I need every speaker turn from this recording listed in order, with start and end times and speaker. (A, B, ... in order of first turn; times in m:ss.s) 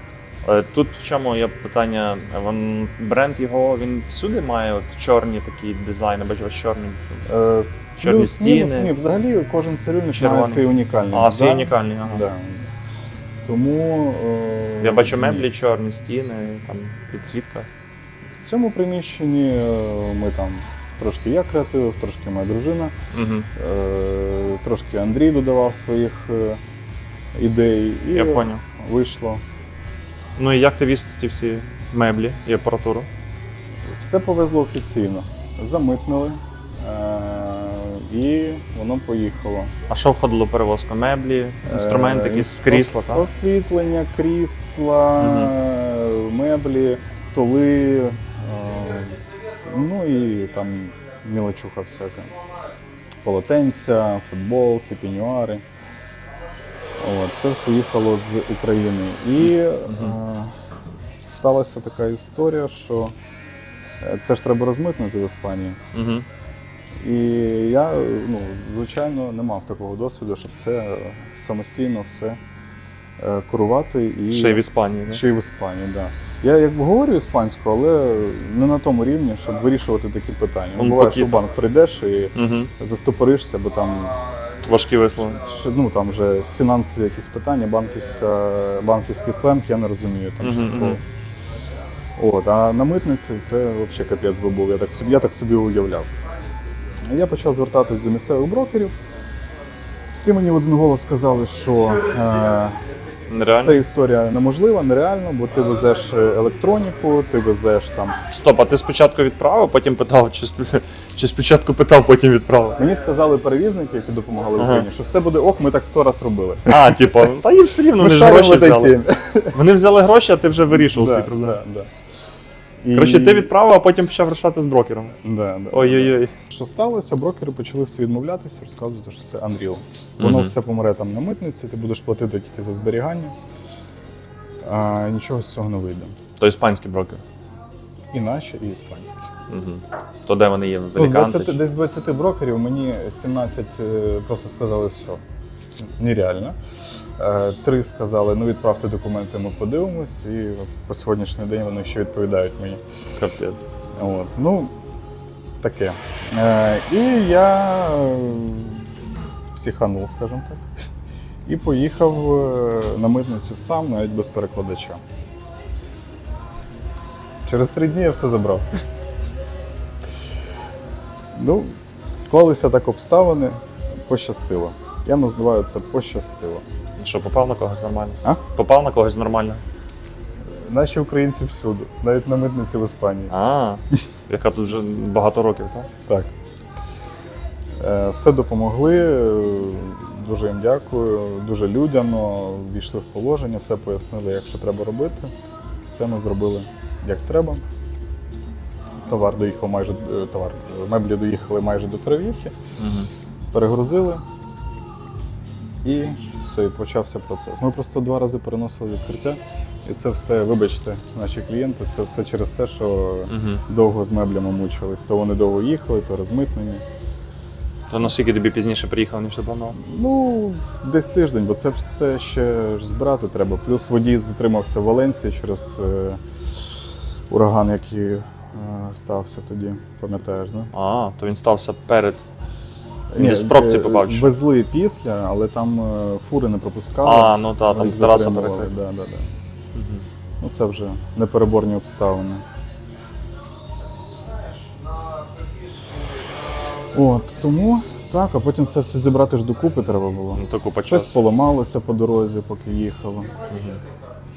0:00.4-0:07.2 A
0:07.2-0:12.7 B
0:08.0-0:08.9 A
0:10.2-0:12.3 A
0:13.4-0:15.5 B
0:14.8-0:17.7 A
0:18.4-0:22.9 B
0:23.1-0:23.5 A
0:23.5-0:26.6 B
0:27.3-0:29.4 B
0:28.1-0:28.6 A
0:30.4-0:33.1 A
0:33.9-0:39.7 B
0:39.9-0:43.3 A
0:41.6-0:52.3 B
0:45.2-0:45.5 A
0:53.2-0:55.6 B
0:57.0-1:00.5 B
0:59.9-1:00.1 A
1:01.2-1:03.1 B
1:04.0-1:05.8 B
1:05.9-1:06.2 A
1:07.0-1:12.4 B
1:13.2-1:24.2 B
1:14.3-1:15.2 A
1:20.8-1:21.4 A
1:22.3-1:22.7 A
1:24.6-1:25.4 A
1:25.3-1:31.0 B
1:30.4-1:31.0 A
1:32.2-1:36.1 B
1:37.0-1:38.9 B
1:40.1-1:42.8 B
1:43.3-1:43.8 A
1:43.6-1:48.2 B
1:48.3-1:52.8 A
1:52.8-1:57.2 B
1:54.6-1:54.9 A
1:56.7-1:59.0 A
1:58.0-1:59.6 B
1:59.5-2:01.6 A
2:00.7-2:01.9 B
2:02.8-2:03.5 B
2:02.9-2:05.1 A
2:05.2-2:13.4 B
2:05.7-2:06.3 A
2:10.2-2:10.5 A
2:14.6-2:16.2 B
2:16.4-2:17.2 A
2:18.1-2:19.3 B
2:19.5-2:21.6 A
2:20.9-2:25.2 B
2:25.8-2:26.6 B
2:27.2-2:32.8 B
2:33.2-2:33.6 A
2:34.0-2:34.7 B
2:35.6-2:38.8 B
2:39.5-2:40.7 B
2:41.4-2:45.0 B
2:47.4-2:48.8 B
2:51.3-2:56.6 B
2:57.0-2:59.6 A
3:00.5-3:03.3 B
3:03.3-3:05.9 A
3:06.1-3:06.3 B
3:07.8-3:15.3 B
3:15.8-3:17.6 B
3:19.1-3:22.5 B
3:22.8-3:23.1 A
3:23.5-3:24.2 B
3:25.8-3:36.8 B
3:33.3-3:33.6 A
3:37.9-3:39.8 A
3:39.7-3:46.2 B
3:47.3-3:50.7 B
3:50.7-3:52.2 A
3:53.1-3:59.3 B
3:53.2-3:54.3 A
3:57.0-3:58.7 A
3:59.7-4:00.0 A
4:00.4-4:02.4 B
4:06.9-4:13.3 B
4:10.3-4:11.2 A
4:13.5-4:13.8 A